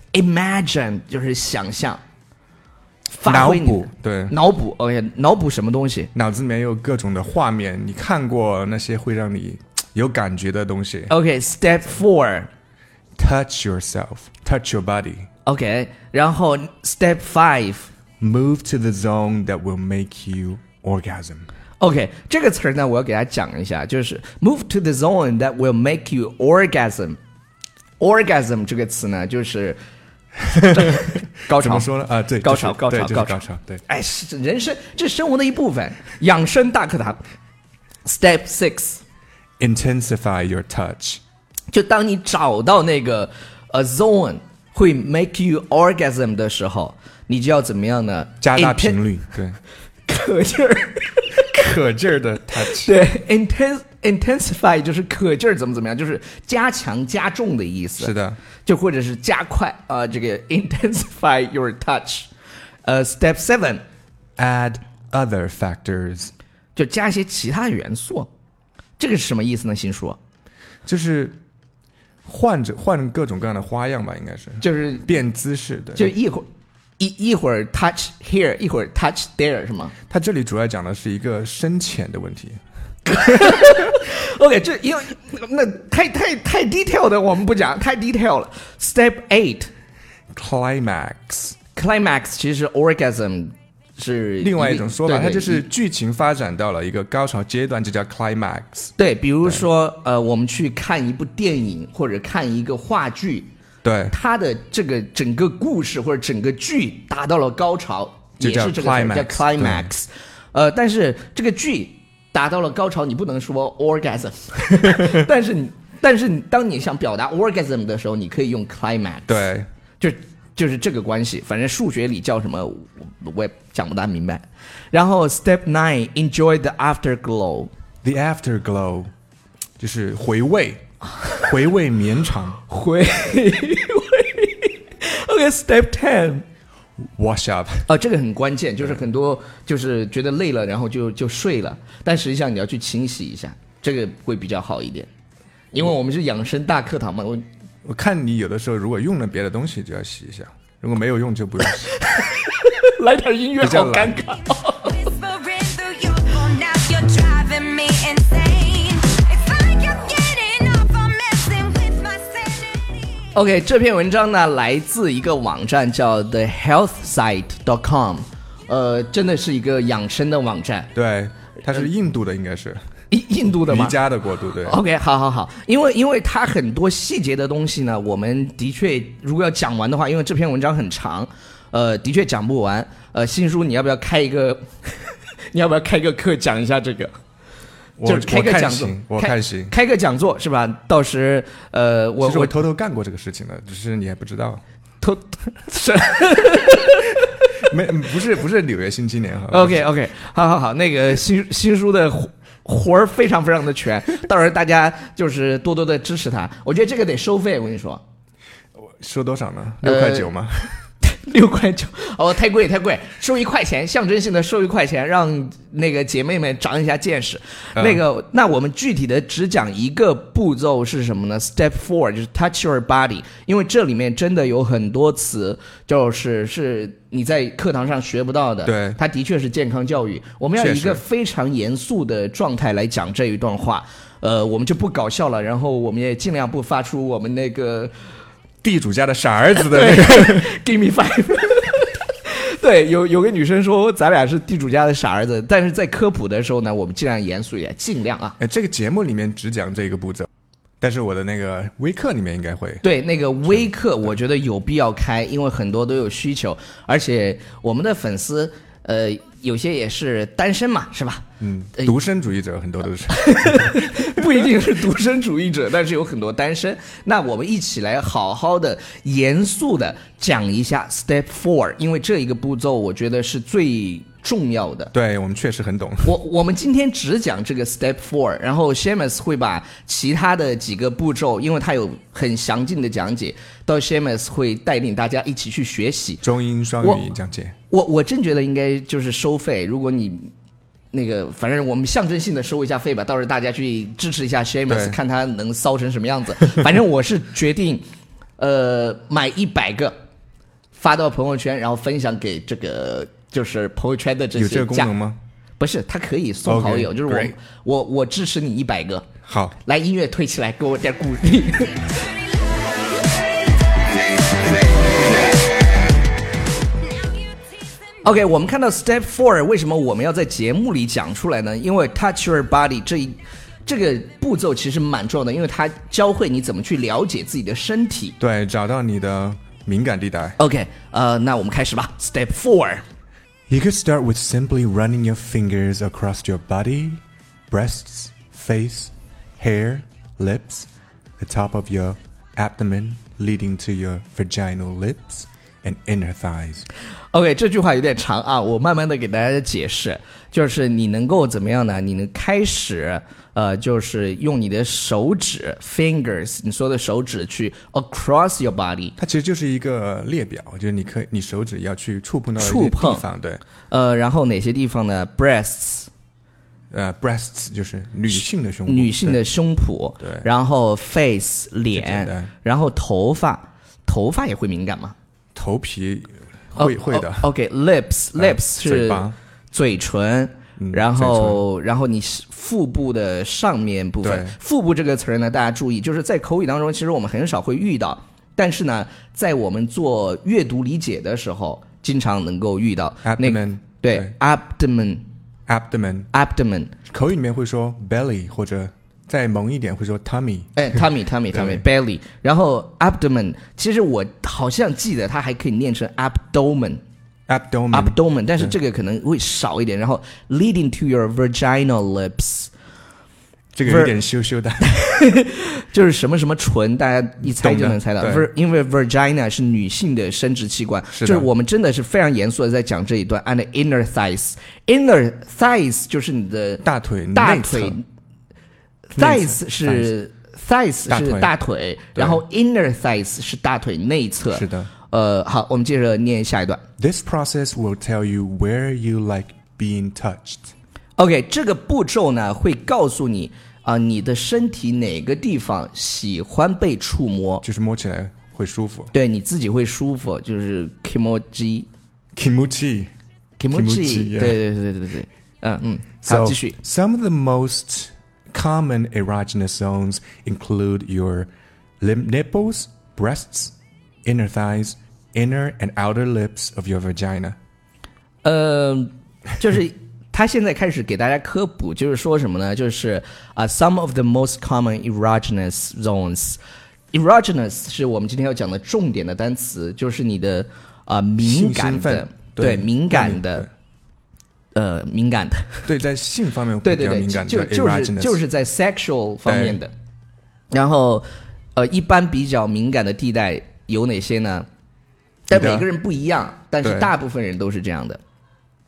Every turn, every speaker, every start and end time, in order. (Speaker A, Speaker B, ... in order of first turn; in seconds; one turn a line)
Speaker A: 0.1-2.0
Speaker A: 3.1-6.1
Speaker B: 3.2-4.3
Speaker B: 6.1-11.1
Speaker A: 11.1-12.5
Speaker B: 13.2-15.3
Speaker A: 15.4-17.9
Speaker B: 18.2-21.5
Speaker A: 21.8-27.2
Speaker A: 28.0-29.8
Speaker B: 30.5-33.8
Speaker A: 30.5-31.9
Speaker A: 32.4-37.2
Speaker A: 38.0-39.0
Speaker B: 39.6-41.2
Speaker A: 41.7-49.0
Speaker B: 48.4-49.6
Speaker A: 50.1-51.4
Speaker B: 51.4-52.9
Speaker A: 52.6-62.3
Speaker B: 58.0-58.4
Speaker A: 62.8-63.8
Speaker B: 64.4-66.3
Speaker A: 66.7-68.3
Speaker A: 69.0-70.2
Speaker B: 70.8-71.4
Speaker B: 72.2-76.1
Speaker A: 74.6-75.2
Speaker A: 75.9-79.9
Speaker B: 80.1-82.6
Speaker A: 83.0-89.7
Speaker B: 90.3-91.6
Speaker A: 91.7-95.7
Speaker B: 94.4-99.7
Speaker A: 99.0-103.5
Speaker B: 103.8-104.1
Speaker A: 104.1-119.4
Speaker B: 108.4-109.9
Speaker B: 119.3-119.7
Speaker A: 120.0-127.7
Speaker B: 128.0-129.1
Speaker B: 129.8-130.8
Speaker A: 131.2-131.4
Speaker B: 131.4-132.6
Speaker A: 132.6-136.4
Speaker B: 137.2-137.9
Speaker A: 137.9-145.1
Speaker A: 145.7-147.5
Speaker B: 147.8-152.0
Speaker A: 151.9-155.0
Speaker B: 153.6-154.1
Speaker C: 154.7-163.2
Speaker A: 163.3-170.9
Speaker B: 170.9-172.8
Speaker A: 173.1-174.0
Speaker B: 173.7-174.8
Speaker A: 174.6-187.1
Speaker B: 188.0-189.7
Speaker A: 188.0-192.6
Speaker B: 192.2-194.6
Speaker A: 195.0-197.7
Speaker B: 197.6-199.8
Speaker A: 199.5-208.0
Speaker B: 208.8-210.8
Speaker A: 209.8-210.3
Speaker A: 211.0-237.9
Speaker B: 217.8-218.0
Speaker B: 228.6-229.0
Speaker B: 230.6-231.0
Speaker B: 238.6-240.5
Speaker A: 239.5-248.4
Speaker B: 248.4-250.3
Speaker B: 250.8-252.8
Speaker A: 252.8-261.9
Speaker B: 261.4-264.1
Speaker A: 263.1-274.9
Speaker B: 274.9-276.1
Speaker A: 276.0-286.2
Speaker B: 286.2-287.5
Speaker A: 287.7-290.3
Speaker A: 290.9-297.8
Speaker B: 294.7-295.0
Speaker A: 298.4-299.9
Speaker A: 300.7-304.9
Speaker B: 304.3-305.2
Speaker A: 305.6-309.1
Speaker B: 306.4-307.3
Speaker B: 309.2-309.6
Speaker A: 309.6-312.1
Speaker A: 318.0-328.2
Speaker B: 328.2-330.4
Speaker A: 330.4-332.8
Speaker B: 333.5-340.7
Speaker B: 341.2-346.6
Speaker A: 347.1-358.9
Speaker B: 359.0-363.4
Speaker A: 362.4-363.0
Speaker A: 363.7-365.9
Speaker B: 366.7-369.2
Speaker A: 368.6-374.9
Speaker B: 370.0-370.3
Speaker B: 371.7-372.3
Speaker B: 375.3-377.3
Speaker A: 376.6-395.0
Speaker B: 378.1-379.2
Speaker B: 380.6-381.4
Speaker B: 384.0-384.3
Speaker B: 393.0-394.1
Speaker B: 395.5-396.1
Speaker A: 396.1-396.8
Speaker B: 396.9-400.6
Speaker A: 400.6-406.8
Speaker B: 401.3-401.6
Speaker B: 407.3-408.5
Speaker A: 407.7-412.5
Speaker B: 413.5-414.7
Speaker A: 413.6-413.9
Speaker A: 414.6-427.8
Speaker B: 417.2-418.3
Speaker B: 420.9-421.3
Speaker B: 426.6-427.8
Speaker A: 428.9-436.6
Speaker B: 429.0-429.9
Speaker B: 430.9-431.3
Speaker B: 431.9-432.2
Speaker B: 434.3-434.7
Speaker B: 436.8-440.5
Speaker A: 441.0-447.4
Speaker B: 447.4-448.9
Speaker A: 448.9-451.7
Speaker B: 452.1-452.9
Speaker A: 453.4-456.6
Speaker B: 453.5-454.4
Speaker B: 456.0-463.5
Speaker B: 464.0-467.4
Speaker A: 468.2-476.4
Speaker A: 476.9-483.5
Speaker B: 481.2-483.5
Speaker A: 484.5-485.7
Speaker B: 485.6-488.2
Speaker A: 486.6-489.7
Speaker B: 489.2-489.6
Speaker A: 490.5-491.0
Speaker A: 491.6-494.5
Speaker A: 495.3-498.0
Speaker B: 495.3-495.7
Speaker B: 496.6-496.9